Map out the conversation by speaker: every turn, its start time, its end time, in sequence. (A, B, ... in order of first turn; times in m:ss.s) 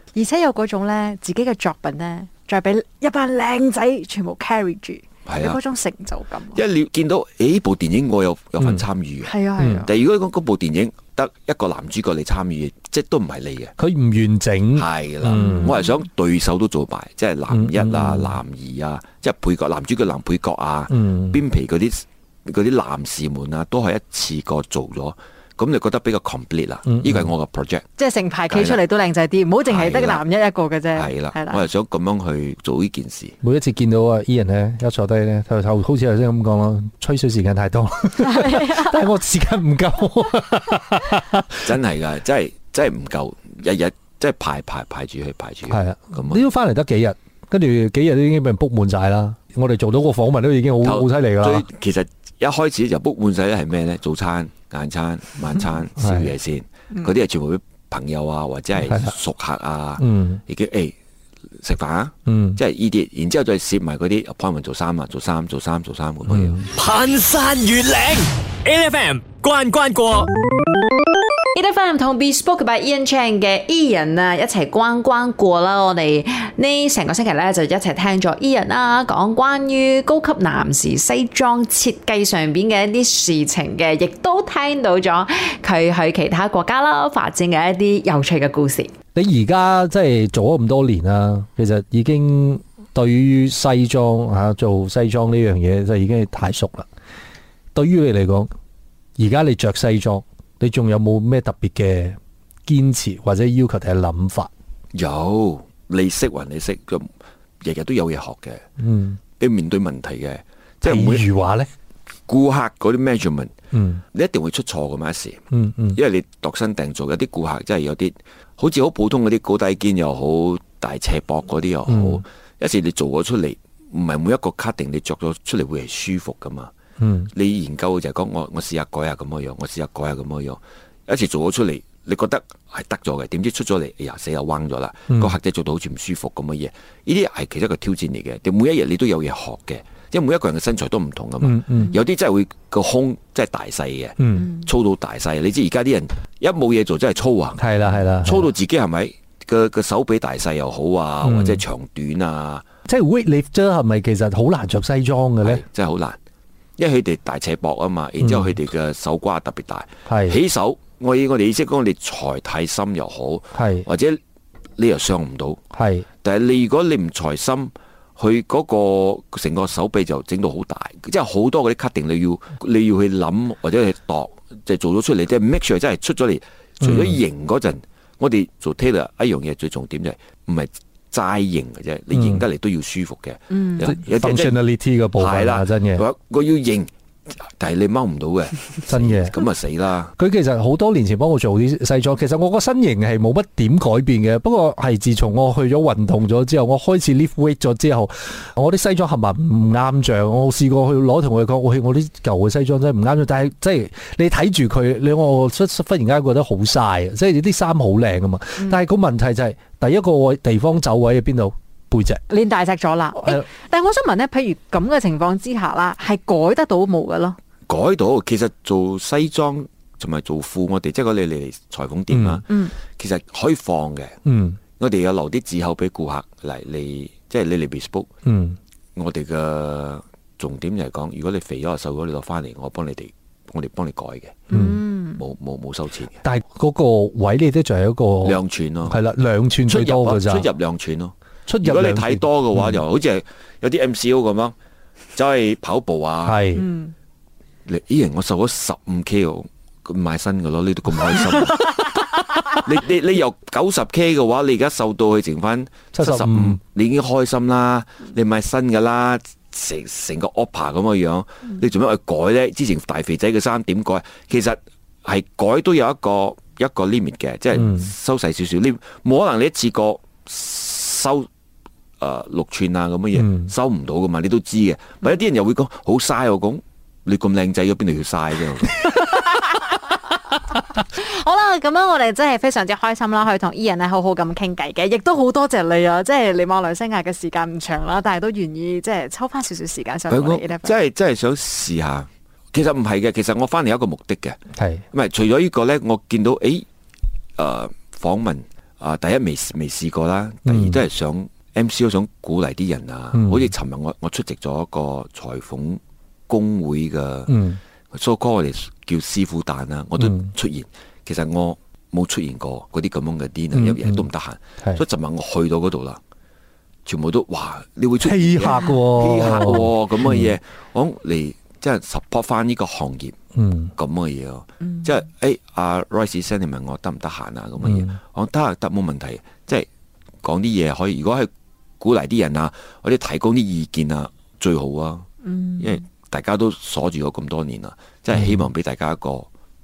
0:00.1-0:06.6 A
0:03.3-0:03.7 B
0:05.2-0:05.6 C
0:06.5-0:13.7 C
0:09.2-0:09.9 A
0:09.6-0:09.8 D
0:13.8-0:15.7 D
0:14.7-0:27.9 C
0:15.4-0:15.7 B
0:17.5-0:18.4 D
0:20.9-0:21.4 D
0:26.8-0:27.3 D
0:28.0-0:31.6 A
0:28.5-0:28.8 C
0:29.7-0:30.2 C
0:30.9-0:33.4 C
0:33.4-0:41.6 D
0:41.6-0:46.4 C
0:45.7-0:51.6 D
0:50.8-1:00.9 C
0:56.0-0:56.3 D
0:58.8-0:59.1 D
1:00.0-1:00.4 D
1:01.6-1:06.6 C
1:02.2-1:02.6 D
1:06.3-1:06.7 D
1:06.7-1:10.3 E
1:11.5-1:28.9 B
1:29.1-1:36.9 D
1:37.7-1:38.5 D
1:39.2-1:44.5 D
1:44.9-1:47.1 C
1:47.6-1:48.6 C
1:48.8-1:49.2 D
1:49.4-1:51.2 C
1:50.8-1:51.7 D
1:52.3-1:53.5 C
1:53.7-1:54.0 D
1:54.1-1:55.4 C
1:55.5-1:56.0 D
1:55.9-2:06.7 C
2:01.9-2:02.2 D
2:07.0-2:07.3 D
2:07.3-2:32.6 C
2:21.4-2:22.0 D
2:24.2-2:24.5 D
2:27.6-2:28.5 D
2:31.2-2:31.6 D
2:32.9-2:35.6 D
2:35.4-2:36.2 C
2:36.8-2:44.2 C
2:38.2-2:38.5 D
2:40.1-2:40.4 D
2:43.5-2:43.8 D
2:44.8-2:45.6 C
2:45.7-2:46.0 D
2:46.2-3:04.6 C
2:56.8-2:57.2 D
3:02.1-3:02.4 D
3:03.8-3:06.0 D
3:05.2-3:10.1 C
3:08.9-3:09.4 D
3:10.2-3:32.2 D
3:32.3-3:37.4 A
3:33.2-3:33.5 B
3:37.7-3:44.2 C
3:42.1-3:42.4 D
3:44.2-3:44.6 D
3:44.8-3:48.1 C
3:48.2-3:48.6 D
3:49.0-3:54.5 C
3:54.5-3:54.8 D
3:54.6-3:55.2 A
3:55.2-3:56.2 C
3:56.2-4:00.5 D
3:58.2-3:59.0 C
3:59.6-4:04.5 C
4:01.5-4:02.8 D
4:05.1-4:06.4 C
4:06.2-4:06.7 D
4:07.6-4:31.3 C
4:15.9-4:16.6 D
4:27.5-4:27.9 D
4:32.0-4:38.8 C
4:33.2-4:33.5 D
4:39.0-4:39.8 A
4:40.9-4:50.7 A
4:50.1-4:54.4 C
4:54.6-4:54.8 D
4:54.9-4:56.6 C
4:57.4-5:16.0 C
5:00.4-5:00.8 D
5:03.1-5:03.5 D
5:07.3-5:07.6 D
5:10.0-5:10.3 D
5:13.5-5:14.1 D
5:16.8-5:23.2 C
5:18.0-5:20.3 D
5:23.4-5:23.7 D
5:23.7-5:29.7 C
5:27.6-5:27.9 D
5:30.2-5:31.3 C
5:31.8-5:35.1 C
5:35.6-5:39.3 C
5:38.1-5:38.5 D